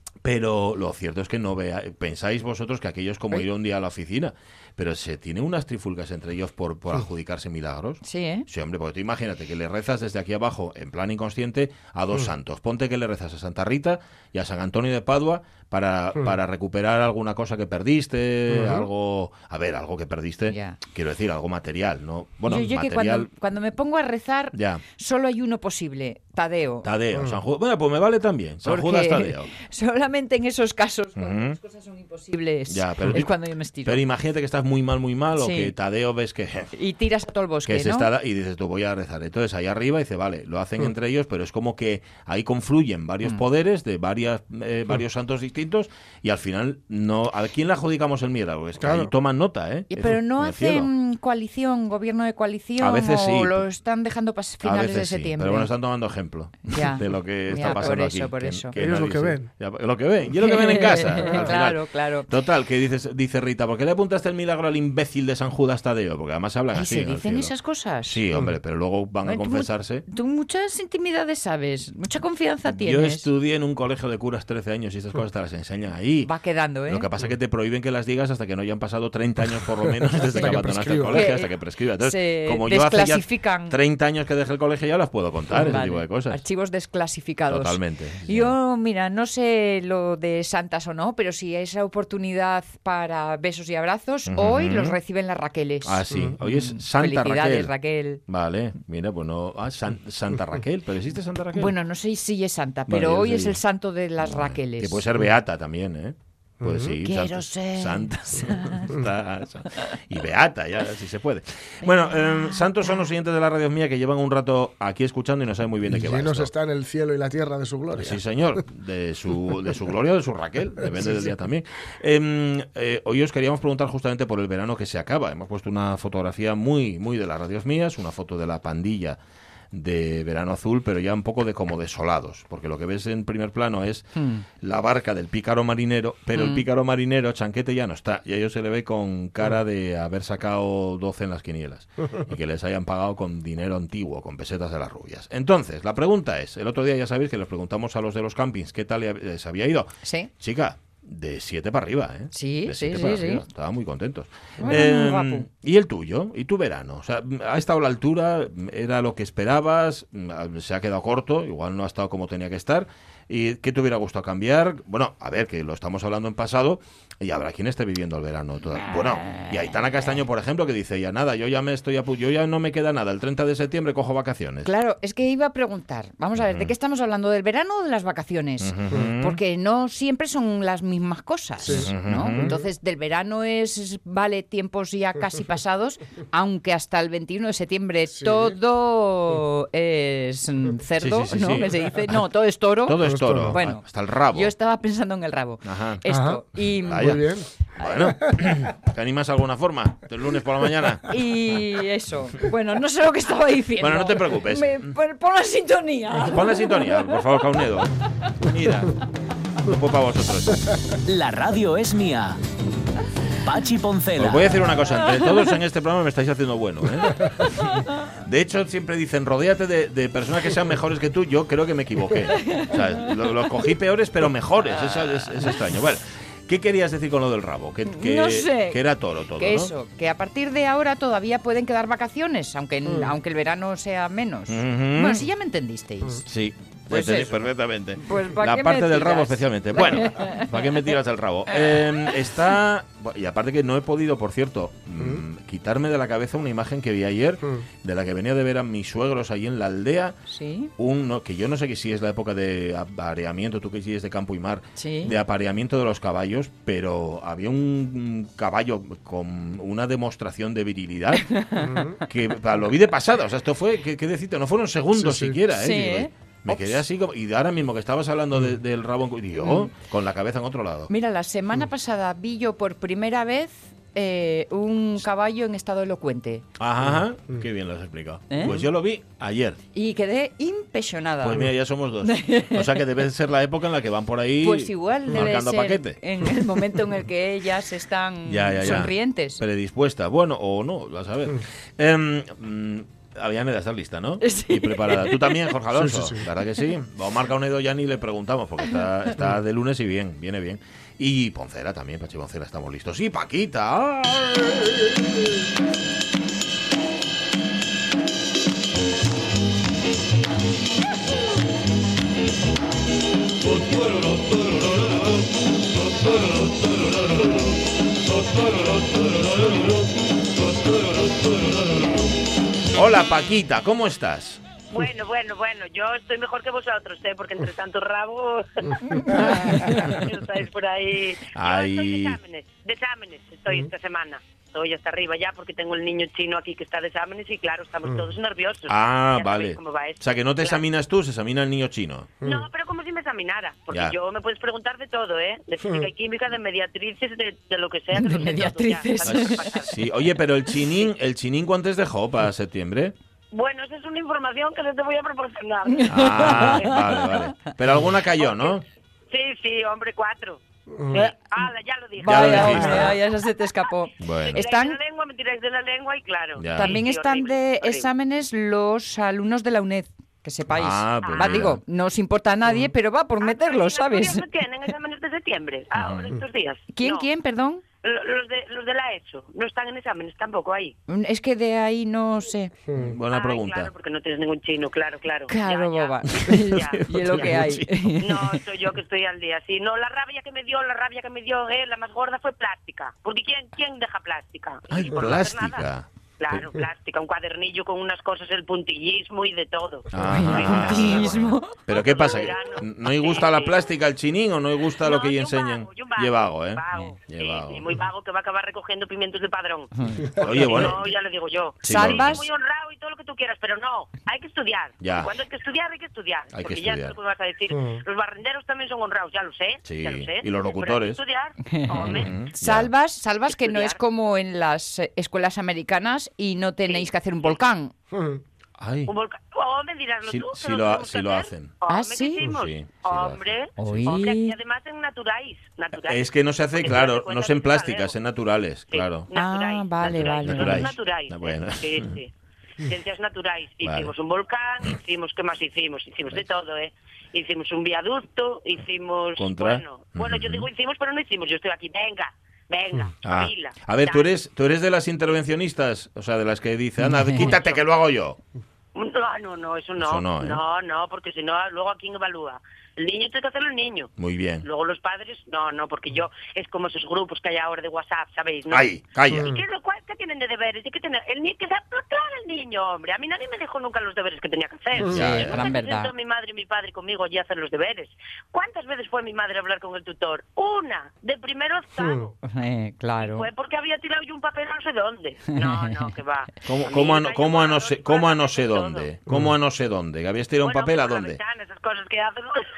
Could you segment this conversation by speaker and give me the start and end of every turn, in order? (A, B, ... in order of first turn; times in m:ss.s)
0:00.2-0:23.3 A
0:08.0-0:08.5 B
0:18.5-0:18.9 C
0:20.5-0:20.8 B
0:22.4-0:26.9 B
0:24.5-0:24.8 A
0:26.8-0:29.5 A
0:27.1-0:27.4 C
0:28.6-0:34.0 B
0:31.2-0:31.6 A
0:32.7-0:33.3 A
0:33.8-0:36.7 A
0:35.4-0:35.7 B
0:36.7-0:38.1 B
0:37.6-0:50.9 A
0:48.8-0:49.1 C
0:49.9-0:55.7 B
0:52.8-0:53.6 A
0:54.6-1:10.0 A
0:56.7-0:58.7 B
0:58.7-0:59.5 C
1:00.4-1:02.3 B
1:01.2-1:01.5 C
1:06.7-1:08.2 B
1:09.2-1:13.3 B
1:12.7-1:16.3 A
1:16.2-1:17.1 B
1:16.9-1:26.4 A
1:20.3-1:21.3 C
1:21.1-1:23.8 B
1:25.5-1:38.2 B
1:27.5-1:28.5 A
1:34.3-1:35.0 A
1:35.8-1:37.7 A
1:38.3-1:41.7 A
1:41.5-1:45.0 B
1:42.9-1:43.6 A
1:44.2-1:56.5 A
1:46.6-1:46.9 C
1:47.0-1:48.9 B
1:52.2-1:52.6 B
1:55.9-1:58.2 C
1:57.9-2:09.2 A
2:00.9-2:01.3 C
2:09.7-2:14.1 A
2:14.1-2:14.4 B
2:14.6-2:54.7 A
2:16.3-2:16.6 B
2:30.0-2:30.3 B
2:32.3-2:33.4 B
2:34.6-2:35.5 B
2:49.2-2:49.7 B
2:54.6-3:17.3 B
2:56.4-2:56.7 A
2:58.6-2:59.4 A
3:01.6-3:02.6 C
3:01.7-3:02.5 A
3:11.0-3:11.9 A
3:12.8-3:14.5 A
3:13.0-3:13.6 C
3:15.6-3:16.0 A
3:16.1-3:18.3 C
3:16.8-3:17.2 A
3:17.8-3:21.1 A
3:21.1-3:27.6 B
3:23.8-3:24.9 A
3:26.3-3:29.0 A
3:29.6-3:30.7 A
3:31.0-3:32.4 D
3:33.4-3:34.6 D
3:34.2-3:49.7 A
3:35.2-3:35.5 B
3:42.4-3:43.1 B
3:47.8-3:48.8 B
3:49.3-3:56.3 B
3:54.5-3:55.2 A
3:56.3-4:10.2 A
3:56.9-4:00.7 B
4:01.5-4:02.1 B
4:10.3-4:10.7 B
4:10.8-4:21.3 A
4:14.8-4:15.2 B
4:21.2-4:21.8 B
4:21.6-4:22.0 C
4:22.0-4:30.9 A
4:25.0-4:25.4 C
4:25.5-4:26.8 B
4:29.4-4:29.7 B
4:30.9-4:36.4 B
4:36.6-4:39.6 A
4:38.3-4:38.6 B
4:39.7-4:41.5 B
4:41.2-4:46.0 A
4:42.0-4:42.8 B
4:44.4-4:49.4 B
4:48.3-5:04.6 A
4:54.2-4:55.5 B
4:55.7-4:56.2 C
5:22.7-5:24.4 A
5:24.7-5:40.6 E
5:29.3-5:29.8 B
5:31.3-5:32.2 A
5:38.7-5:42.1 A
5:42.2-5:49.8 E
5:47.9-5:49.6 B
5:49.0-5:52.9 A
5:53.3-5:56.8 E
5:55.7-5:57.2 B
5:55.9-5:58.6 A
5:58.2-6:00.4 E
6:00.7-6:01.0 C
6:00.9-6:03.0 E
6:02.0-6:04.8 B
6:02.0-6:02.9 A
6:04.0-6:04.4 A
6:04.3-6:07.9 E
6:06.4-6:06.7 A
6:06.5-6:14.2 B
6:10.5-6:11.6 A
6:11.0-6:11.4 E
6:13.2-6:17.0 E
6:15.7-6:16.1 A
6:16.7-6:17.6 B
6:17.8-6:20.8 E
6:20.9-6:22.5 B
6:22.8-6:23.7 A
6:23.1-6:26.8 E
6:25.3-6:28.4 B
6:26.6-6:27.9 A
6:28.0-6:35.7 E
6:34.7-6:36.5 A
6:36.2-6:39.9 E
6:39.9-6:47.6 A
6:40.0-6:41.6 B
6:41.7-6:43.7 E
6:44.8-7:02.1 E
6:49.8-6:50.1 B
6:50.2-6:50.8 A
6:51.6-6:52.2 A
6:51.6-6:52.2 B
6:54.8-6:55.1 A
6:56.3-6:56.9 A
6:57.5-6:57.8 C
6:59.6-7:01.0 A
7:01.5-7:07.7 B
7:01.7-7:02.7 A
7:03.4-7:03.8 E
7:06.6-7:07.3 E
7:07.9-7:08.2 C
7:08.6-7:08.9 A
7:08.9-7:16.0 E
7:10.1-7:11.5 A
7:11.7-7:12.3 B
7:12.2-7:13.9 A
7:13.6-7:14.4 B
7:15.8-7:19.1 A
7:16.5-7:17.9 E
7:18.7-7:34.1 E
7:19.1-7:20.7 B
7:20.2-7:21.9 A
7:23.6-7:23.9 A
7:29.2-7:30.5 A
7:33.0-7:38.2 A
7:36.8-7:37.3 B
7:37.2-7:37.6 E
7:38.7-7:43.9 E
7:39.8-7:40.4 A
7:44.0-7:44.4 A
7:44.4-8:02.1 E
7:48.5-7:49.3 A
7:49.1-7:49.4 C
7:54.9-7:55.9 B
7:54.9-7:55.4 A
8:01.8-8:02.1 C
8:02.2-8:03.3 B
8:03.0-8:08.8 E
8:05.3-8:05.8 B
8:06.4-8:11.2 A
8:10.4-8:12.4 E